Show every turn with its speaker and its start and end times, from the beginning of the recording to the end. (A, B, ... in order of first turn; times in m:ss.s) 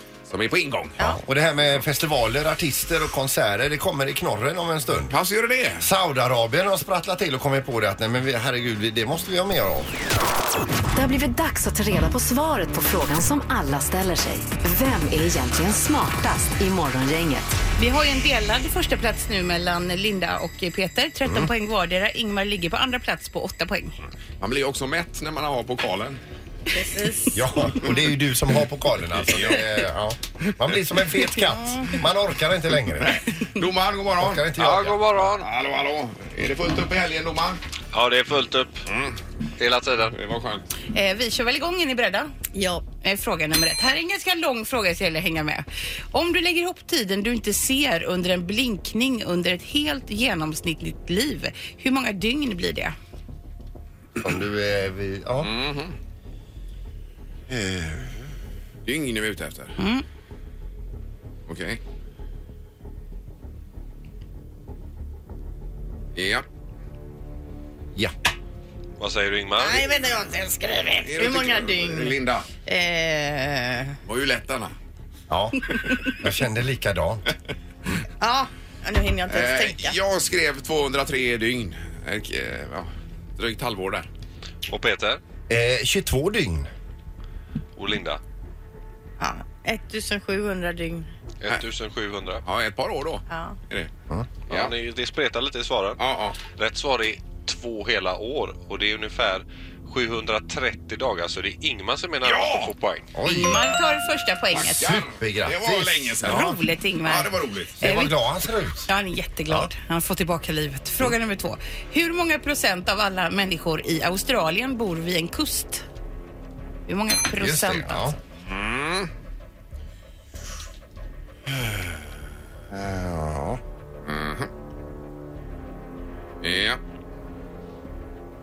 0:00.3-0:01.0 A
0:01.0-0:05.1 B
0:05.1-0:05.9 A
0:05.8-0:09.9 B
0:11.0-0:17.6 C
0:17.8-0:23.9 D
0:24.4-0:26.2 A
0:26.7-0:27.8 E
0:27.4-0:33.1 B
0:29.3-0:29.7 A
0:31.5-0:31.9 E
0:33.0-0:34.5 A
0:34.2-0:35.0 B
0:34.6-0:35.5 F
0:35.4-0:37.6 A
0:37.9-0:38.9 F
0:38.9-0:39.2 A
0:39.6-0:40.2 F
0:40.1-0:40.7 A
0:40.9-0:42.3 D
0:42.5-0:42.8 E
0:43.0-0:53.0 D
0:54.2-0:55.5 B
0:55.4-0:56.0 A
0:57.5-0:58.2 A
0:58.8-0:59.8 A
0:59.8-1:00.0 D
1:01.5-1:01.8 A
1:06.2-1:06.5 A
1:09.0-1:09.8 F
1:09.6-1:14.0 E
1:11.0-1:12.5 A
1:14.1-1:14.7 A
1:15.3-1:17.2 B
1:18.2-1:20.0 E
1:19.3-1:24.1 A
1:24.7-1:25.2 F
1:25.5-1:26.7 B
1:27.8-1:28.2 F
1:29.2-1:31.1 E
1:31.4-1:32.4 F
1:32.4-1:33.9 A
1:33.3-1:33.6 E
1:34.5-1:43.1 F
1:36.0-1:36.4 A
1:42.2-1:42.7 A
1:43.2-1:43.6 B
1:43.2-1:45.0 D
1:44.5-1:47.8 A
1:44.6-1:46.6 B
1:46.3-1:48.2 D
1:47.8-1:48.9 B
1:48.9-1:55.8 D
1:56.9-1:58.2 D
1:57.4-1:58.2 B
1:58.5-1:59.1 A
2:02.7-2:03.6 B
2:04.1-2:04.5 A
2:06.4-2:06.8 A